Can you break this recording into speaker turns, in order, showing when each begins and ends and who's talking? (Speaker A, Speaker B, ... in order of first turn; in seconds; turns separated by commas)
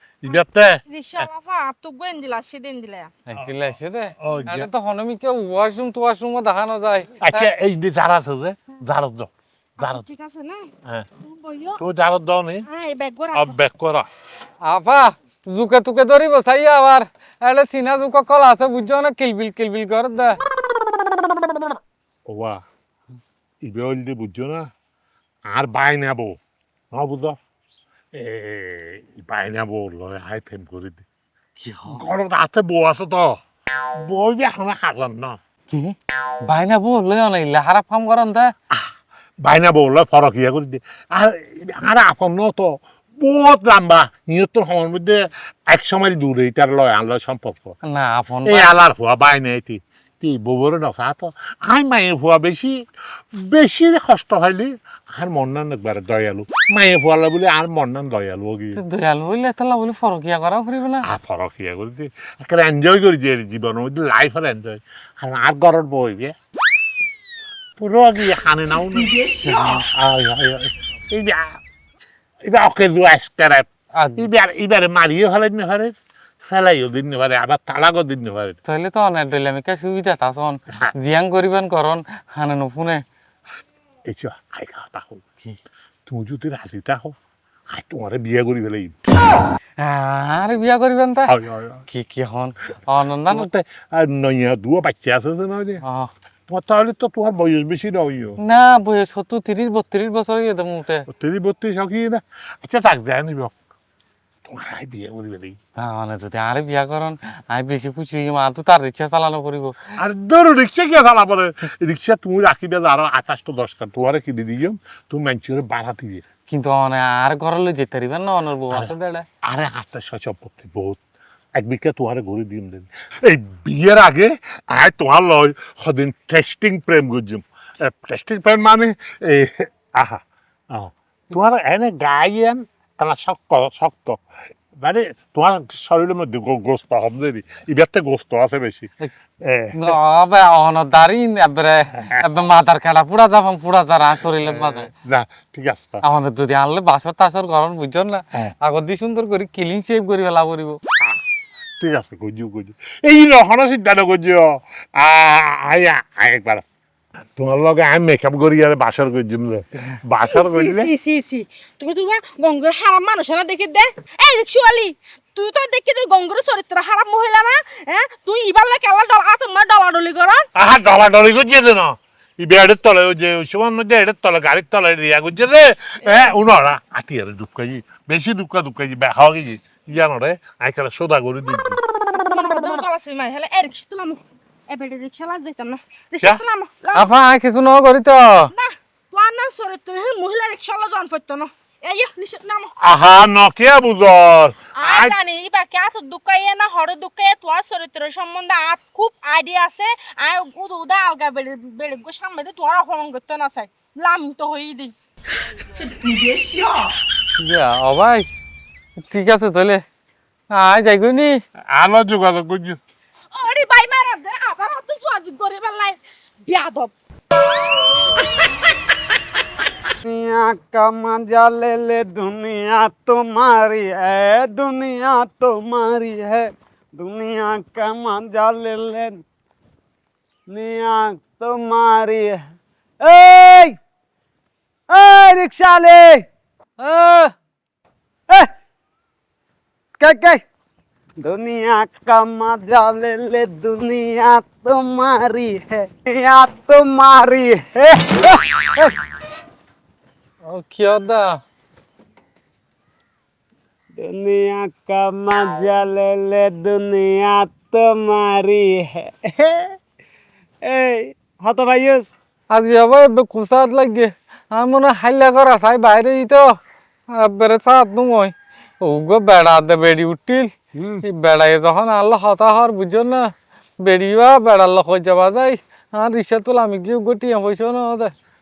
Speaker A: 0.2-1.3, Speaker B: 0.9-3.1, Speaker C: 3.3-7.4, Speaker A: 4.2-4.7, Speaker A: 7.2-10.0, Speaker B: 9.8-10.7, Speaker B: 11.2-11.8, Speaker A: 11.8-12.7, Speaker B: 12.7-13.5, Speaker A: 13.3-14.1, Speaker C: 14.6-20.4, Speaker A: 22.2-22.6, Speaker A: 23.6-24.7, Speaker A: 25.5-26.4, Speaker A: 26.9-27.4, Speaker A: 28.1-31.0, Speaker C: 31.6-32.0, Speaker A: 31.9-33.4, Speaker A: 34.0-35.4, Speaker C: 35.7-38.5, Speaker A: 39.4-47.7, Speaker C: 47.9-48.7, Speaker A: 48.4-52.7, Speaker A: 53.4-58.8, Speaker C: 58.8-61.1, Speaker A: 61.0-66.3, Speaker A: 67.8-71.6, Speaker A: 72.4-78.6, Speaker C: 74.0-74.3, Speaker C: 78.7-83.0, Speaker A: 84.1-85.5, Speaker A: 86.0-87.2, Speaker A: 87.7-89.0, Speaker C: 89.8-91.3, Speaker A: 91.3-91.8, Speaker C: 91.9-93.5, Speaker A: 93.3-95.8, Speaker C: 95.8-96.1, Speaker A: 96.5-98.4, Speaker C: 98.4-101.0, Speaker A: 101.1-103.5, Speaker A: 104.5-105.6, Speaker C: 105.8-109.8, Speaker A: 110.0-116.2, Speaker C: 116.5-119.2, Speaker A: 119.4-121.0, Speaker A: 121.5-134.2, Speaker A: 134.8-138.9, Speaker A: 139.4-139.9, Speaker C: 139.7-144.9, Speaker A: 142.0-142.2, Speaker A: 144.5-146.0, Speaker C: 146.0-150.8, Speaker A: 151.8-156.6, Speaker A: 157.4-160.9, Speaker B: 160.2-170.4, Speaker A: 170.6-181.8, Speaker B: 182.1-187.1, Speaker C: 186.9-188.5, Speaker B: 188.5-192.7, Speaker A: 192.8-195.2, Speaker B: 194.8-204.9, Speaker C: 207.4-208.3, Speaker C: 209.0-209.8, Speaker C: 210.5-211.4, Speaker A: 211.7-212.8, Speaker B: 213.3-216.9, Speaker D: 220.0-229.2, Speaker D: 230.5-232.4, Speaker D: 233.0-233.8, Speaker D: 234.9-236.2, Speaker C: 236.8-237.3, Speaker D: 240.0-240.4, Speaker D: 241.2-248.9, Speaker C: 250.4-251.4, Speaker D: 253.9-259.7, Speaker D: 260.6-262.1, Speaker C: 262.5-266.5, Speaker C: 267.1-270.5, Speaker D: 270.7-271.0, Speaker C: 271.0-278.1